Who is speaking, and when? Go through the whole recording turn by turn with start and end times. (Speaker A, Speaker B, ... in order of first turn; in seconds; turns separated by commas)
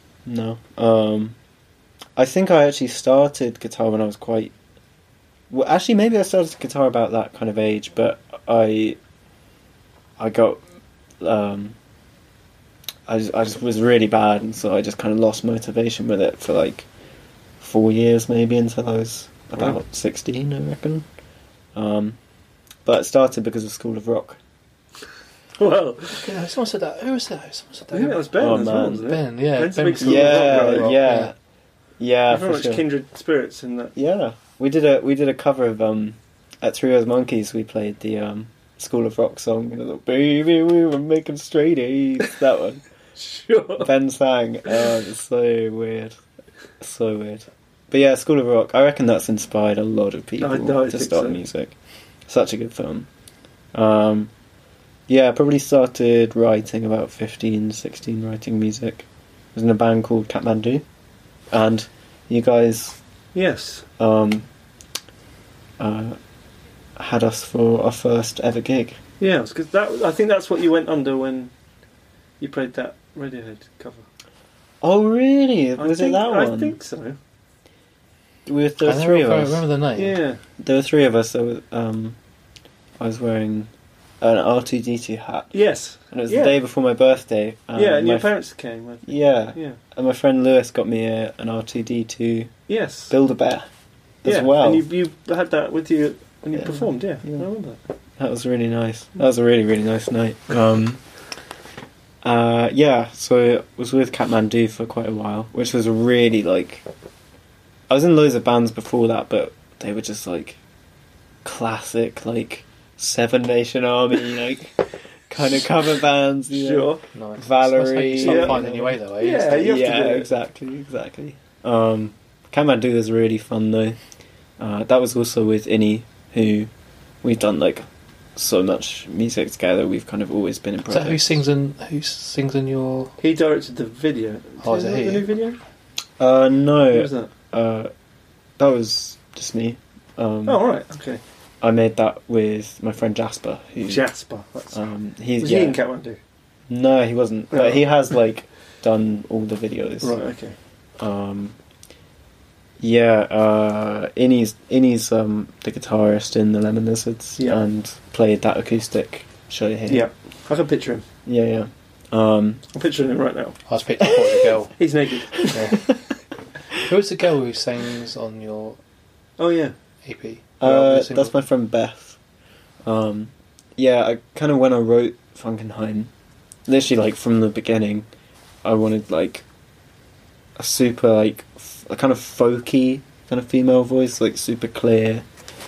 Speaker A: 0.3-1.4, Speaker A: 2.2-4.5, Speaker A: 5.5-9.0, Speaker A: 10.2-10.6, Speaker A: 11.2-11.8, Speaker A: 13.1-16.9, Speaker A: 17.6-21.1, Speaker A: 21.8-22.2, Speaker A: 22.9-24.4, Speaker B: 25.6-26.3, Speaker C: 26.2-31.3, Speaker B: 27.9-31.0, Speaker A: 28.4-29.1, Speaker A: 30.0-31.3, Speaker A: 32.0-32.8, Speaker B: 32.3-34.0, Speaker A: 34.0-42.8, Speaker B: 43.2-43.9, Speaker A: 43.8-46.2, Speaker A: 46.8-51.8, Speaker B: 50.4-51.4, Speaker A: 52.3-53.1, Speaker A: 53.7-54.3, Speaker A: 55.1-60.9, Speaker A: 61.5-63.0, Speaker B: 63.3-63.9, Speaker A: 64.0-64.5, Speaker A: 65.8-66.2, Speaker A: 67.0-69.0, Speaker B: 69.2-71.5, Speaker B: 72.4-74.1, Speaker A: 74.8-76.8, Speaker B: 75.8-77.2, Speaker A: 78.5-79.6, Speaker C: 78.8-80.2, Speaker B: 80.0-80.4, Speaker A: 80.6-82.2, Speaker A: 83.0-83.7, Speaker A: 84.2-85.5, Speaker B: 85.5-86.6, Speaker A: 86.1-88.3, Speaker B: 87.8-89.8, Speaker A: 89.1-92.5, Speaker B: 92.7-93.1, Speaker A: 93.1-93.7, Speaker A: 94.2-94.8, Speaker B: 94.2-97.8, Speaker A: 96.6-97.5, Speaker A: 98.2-101.0, Speaker A: 102.2-106.8, Speaker A: 107.9-110.6, Speaker A: 111.4-124.0, Speaker B: 116.5-117.0, Speaker C: 117.1-119.7, Speaker B: 118.2-118.6, Speaker B: 119.2-120.3, Speaker A: 124.6-126.7, Speaker A: 127.2-131.4, Speaker C: 130.9-133.2, Speaker B: 133.2-135.6, Speaker C: 134.6-135.3, Speaker A: 136.2-137.9, Speaker B: 136.9-137.3, Speaker A: 138.6-140.6, Speaker B: 140.5-141.2, Speaker A: 141.6-144.0, Speaker B: 143.8-144.8, Speaker A: 144.7-145.8, Speaker B: 145.4-146.2, Speaker A: 146.7-150.2, Speaker B: 147.5-147.8, Speaker B: 150.0-150.6, Speaker A: 151.0-151.6, Speaker A: 152.8-160.1, Speaker B: 159.9-161.1, Speaker A: 161.3-162.6, Speaker B: 162.7-163.6, Speaker C: 163.7-164.8, Speaker A: 164.0-164.5, Speaker B: 164.8-165.7, Speaker A: 165.4-166.0, Speaker C: 165.5-165.9, Speaker C: 166.8-168.8, Speaker B: 169.4-169.7, Speaker C: 170.1-171.3, Speaker A: 170.6-172.2, Speaker A: 172.8-176.1, Speaker A: 176.7-178.1, Speaker A: 178.6-179.4, Speaker A: 180.6-185.2